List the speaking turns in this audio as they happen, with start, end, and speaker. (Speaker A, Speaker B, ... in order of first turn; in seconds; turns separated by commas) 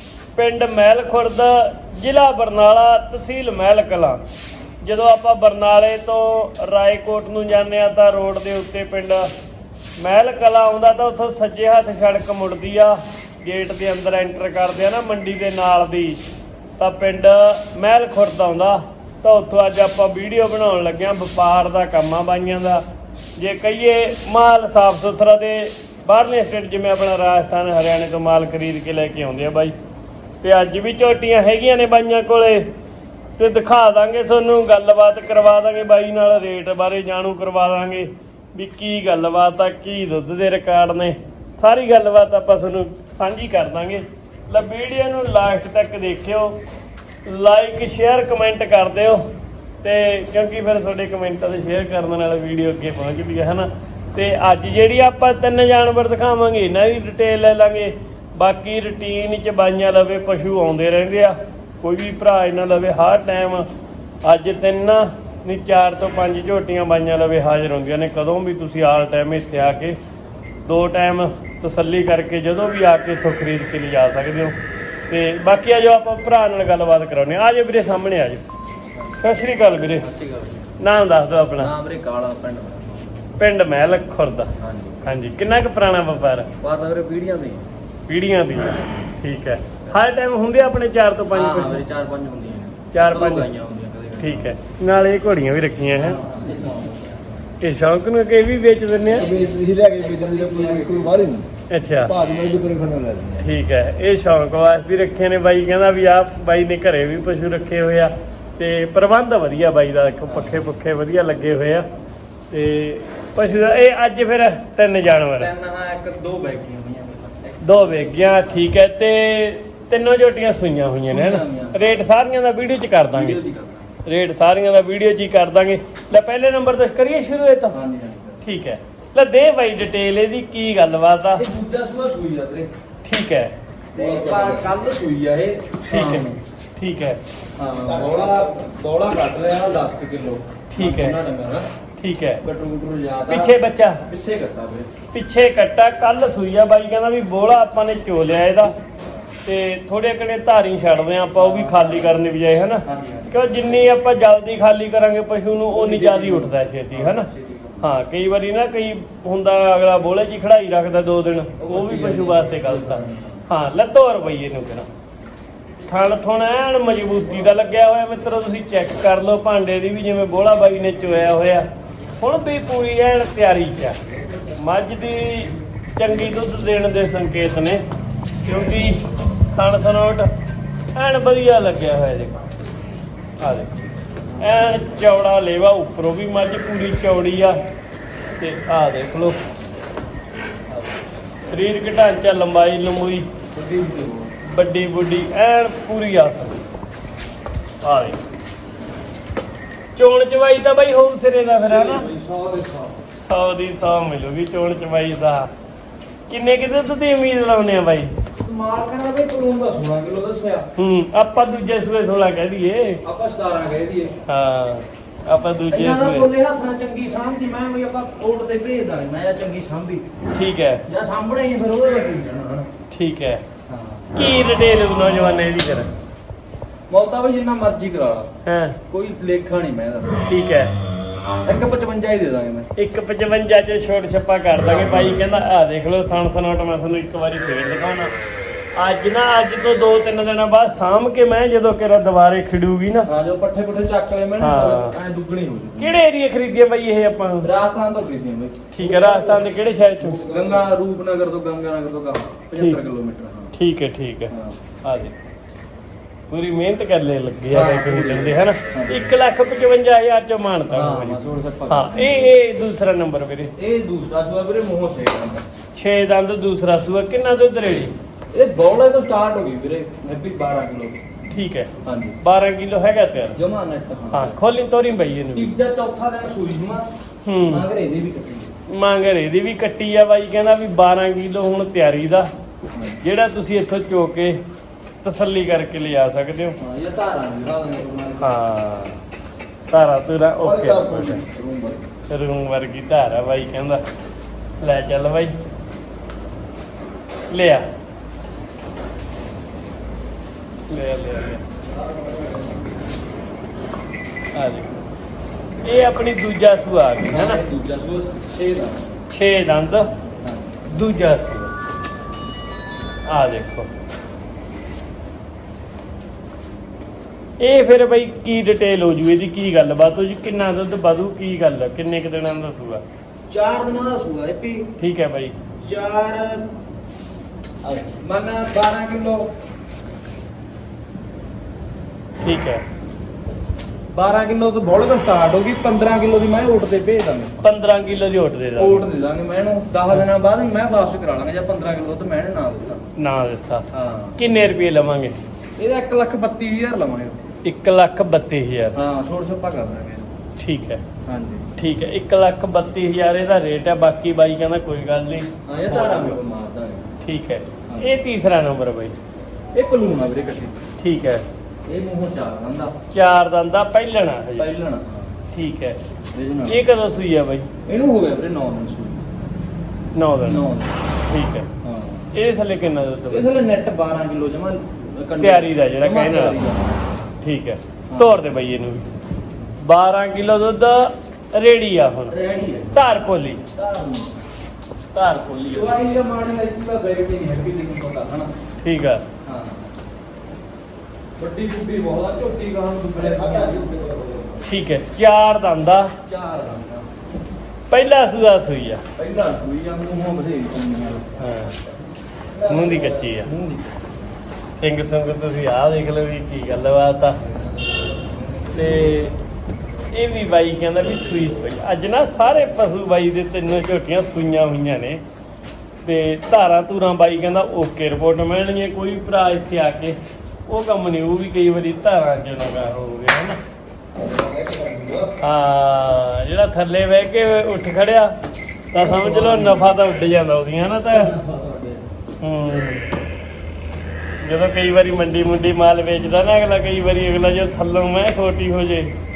Speaker A: 0.3-4.2, Speaker A: 4.8-9.3, Speaker A: 10.0-16.2, Speaker A: 16.8-22.8, Speaker A: 23.4-29.7, Speaker A: 30.4-32.7, Speaker A: 33.4-46.6, Speaker A: 47.2-49.2, Speaker A: 49.8-63.7, Speaker A: 64.2-70.0, Speaker A: 70.7-74.5, Speaker A: 75.1-78.4, Speaker A: 79.2-80.1, Speaker B: 80.0-80.7, Speaker A: 80.8-81.7, Speaker B: 81.6-83.1, Speaker A: 83.4-84.5, Speaker B: 84.6-85.0, Speaker A: 85.0-86.5, Speaker B: 86.6-87.6, Speaker A: 88.1-91.8, Speaker B: 91.3-94.5, Speaker A: 92.9-93.5, Speaker A: 94.2-96.2, Speaker B: 95.9-97.3, Speaker A: 97.6-99.3, Speaker B: 99.1-101.2, Speaker C: 99.2-101.5, Speaker A: 101.7-102.1, Speaker C: 102.0-103.5, Speaker A: 103.4-111.9, Speaker B: 110.3-110.6, Speaker A: 112.5-115.5, Speaker B: 115.4-118.6, Speaker A: 117.6-123.4, Speaker B: 121.1-121.9, Speaker B: 123.1-123.9, Speaker A: 124.0-127.8, Speaker B: 127.7-128.4, Speaker A: 128.4-131.4, Speaker B: 131.3-132.7, Speaker A: 133.0-133.5, Speaker C: 133.9-134.7, Speaker B: 133.9-136.4, Speaker A: 135.9-137.2, Speaker B: 137.6-141.7, Speaker C: 137.8-138.6, Speaker A: 140.7-141.2, Speaker A: 142.0-142.4, Speaker B: 142.4-144.9, Speaker A: 143.3-144.0, Speaker A: 145.1-148.7, Speaker B: 149.0-149.3, Speaker A: 149.4-157.3, Speaker B: 151.3-152.2, Speaker B: 152.8-153.8, Speaker B: 155.7-157.9, Speaker A: 157.8-164.9, Speaker B: 161.6-163.4, Speaker A: 165.8-171.7, Speaker A: 172.2-174.0, Speaker A: 174.6-177.8, Speaker A: 178.4-180.3, Speaker A: 180.9-182.4, Speaker A: 183.4-183.7, Speaker A: 184.4-187.6, Speaker A: 188.4-189.4, Speaker B: 190.7-191.0, Speaker A: 191.5-193.3, Speaker B: 193.5-194.3, Speaker A: 194.4-196.6, Speaker A: 197.8-198.2, Speaker A: 199.9-202.1, Speaker B: 201.6-203.0, Speaker A: 203.2-205.5, Speaker A: 206.3-208.1, Speaker B: 208.4-210.7, Speaker A: 210.8-213.0, Speaker B: 213.0-214.2, Speaker A: 214.2-216.3, Speaker B: 215.7-220.1, Speaker A: 220.3-220.8, Speaker B: 220.9-222.7, Speaker A: 222.9-223.4, Speaker B: 223.7-224.1, Speaker A: 224.1-225.9, Speaker B: 226.9-228.3, Speaker A: 228.4-228.8, Speaker B: 228.9-230.2, Speaker A: 230.2-230.7, Speaker B: 231.4-232.7, Speaker A: 232.8-238.1, Speaker A: 238.7-243.1, Speaker B: 243.1-246.0, Speaker A: 244.4-245.0, Speaker A: 245.8-247.5, Speaker B: 247.4-249.4, Speaker A: 248.7-250.3, Speaker C: 250.0-250.6, Speaker B: 250.2-253.5, Speaker A: 253.5-254.3, Speaker B: 254.3-254.6, Speaker A: 254.8-255.1, Speaker A: 256.3-263.5, Speaker B: 257.5-259.1, Speaker B: 260.7-262.3, Speaker B: 263.6-265.4, Speaker A: 265.7-267.9, Speaker B: 268.3-271.0, Speaker A: 271.3-273.4, Speaker B: 271.8-272.2, Speaker B: 273.4-274.4, Speaker A: 274.1-275.5, Speaker B: 275.3-276.9, Speaker A: 277.2-277.7, Speaker B: 277.5-278.5, Speaker A: 278.7-282.3, Speaker B: 282.7-283.0, Speaker A: 283.0-284.4, Speaker A: 285.0-286.6, Speaker B: 286.6-288.4, Speaker A: 288.2-289.0, Speaker A: 289.7-291.2, Speaker C: 290.4-291.8, Speaker A: 292.1-293.8, Speaker A: 294.6-295.4, Speaker A: 297.3-297.6, Speaker A: 300.7-301.4, Speaker A: 304.3-304.7, Speaker A: 305.6-307.4, Speaker B: 307.1-308.9, Speaker A: 309.1-309.9, Speaker B: 310.2-310.6, Speaker A: 310.7-311.5, Speaker A: 313.1-313.7, Speaker A: 317.4-322.8, Speaker B: 323.3-324.7, Speaker A: 324.8-325.4, Speaker B: 325.6-326.5, Speaker C: 327.6-327.9, Speaker B: 328.0-329.3, Speaker A: 332.2-332.6, Speaker B: 333.9-337.4, Speaker A: 337.4-338.9, Speaker B: 338.6-342.8, Speaker A: 342.9-343.6, Speaker B: 343.7-344.2, Speaker A: 344.2-345.1, Speaker B: 345.6-347.2, Speaker A: 347.4-348.8, Speaker B: 348.7-350.1, Speaker A: 350.4-350.8, Speaker B: 351.0-351.5, Speaker A: 351.6-356.2, Speaker B: 355.4-356.9, Speaker A: 357.0-358.9, Speaker B: 359.5-360.6, Speaker A: 360.8-361.2, Speaker B: 361.6-362.7, Speaker A: 362.9-364.5, Speaker B: 364.4-365.1, Speaker A: 365.3-365.8, Speaker B: 366.1-366.6, Speaker A: 366.5-367.5, Speaker B: 367.6-369.0, Speaker A: 369.9-370.4, Speaker B: 370.2-370.8, Speaker A: 371.1-371.5, Speaker B: 371.6-372.1, Speaker A: 372.1-373.3, Speaker B: 373.1-376.8, Speaker A: 375.1-376.4, Speaker A: 377.2-378.9, Speaker B: 377.9-378.2, Speaker A: 379.6-382.1, Speaker B: 382.1-382.8, Speaker A: 382.7-383.4, Speaker B: 383.5-384.2, Speaker A: 384.9-385.8, Speaker B: 385.5-388.3, Speaker A: 388.6-389.0, Speaker B: 389.2-389.7, Speaker B: 391.2-393.7, Speaker C: 392.9-394.4, Speaker A: 394.4-395.9, Speaker B: 396.1-396.9, Speaker A: 397.7-398.8, Speaker B: 398.9-401.1, Speaker A: 401.2-401.6, Speaker C: 402.3-403.2, Speaker A: 402.5-403.3, Speaker B: 403.1-403.7, Speaker A: 404.6-407.2, Speaker B: 407.7-409.0, Speaker A: 408.5-409.1, Speaker A: 409.9-415.0, Speaker A: 415.8-423.4, Speaker C: 424.0-425.1, Speaker A: 425.2-428.1, Speaker A: 428.7-431.1, Speaker B: 428.8-429.7, Speaker B: 430.9-431.8, Speaker A: 432.2-432.9, Speaker A: 434.2-438.9